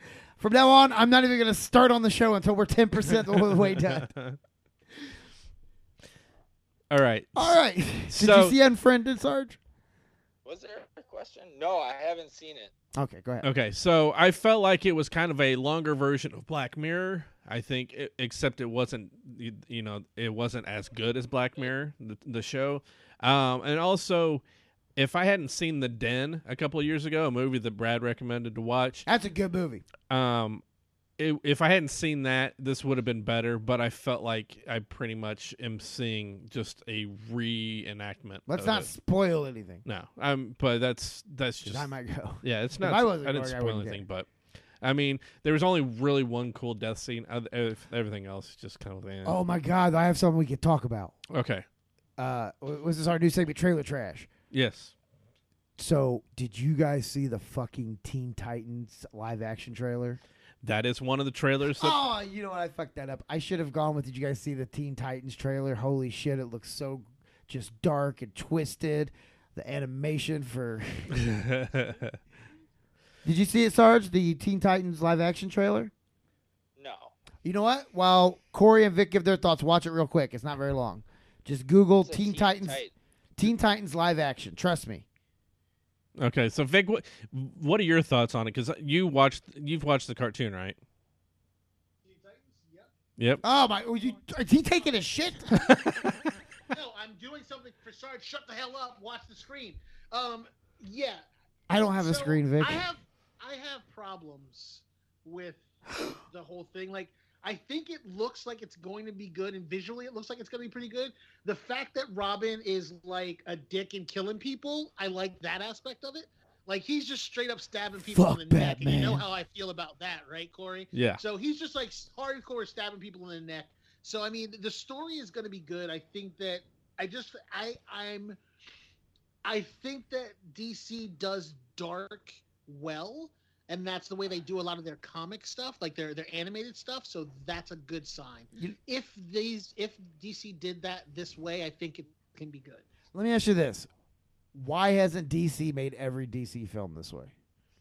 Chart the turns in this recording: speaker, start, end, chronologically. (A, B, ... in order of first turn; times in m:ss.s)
0:00.4-0:04.1 A
0:03.8-0:04.4 B
0:06.9-0:08.6 B
0:07.4-0:09.6 A
0:10.4-0:12.7 C
0:13.0-0:13.5 A
0:13.4-0:24.4 B
0:25.0-0:29.1 B
0:29.1-0:29.8 A
0:30.1-0:30.6 B
0:31.2-0:38.9 B
0:38.5-0:39.8 A
0:39.9-0:44.3 B
0:41.6-0:44.0 A
0:44.8-0:49.4 B
0:49.2-0:51.2 A
0:51.3-0:51.6 B
0:52.2-0:54.3 A
0:54.5-0:54.9 B
0:55.8-1:00.2 A
1:00.6-1:02.0 B
1:01.8-1:11.2 A
1:11.1-1:12.2 B
1:13.2-1:15.9 A
1:16.8-1:17.2 C
1:17.4-1:22.8 A
1:22.0-1:22.9 C
1:23.4-1:25.1 A
1:26.2-1:30.8 B
1:32.0-1:32.9 D
1:33.4-1:36.2 A
1:33.4-1:45.6 D
1:41.7-1:42.9 A
1:46.3-2:08.4 D
1:58.0-1:59.3 A
2:00.9-2:01.2 B
2:09.4-2:22.9 D
2:23.1-2:23.9 A
2:24.6-2:27.3 A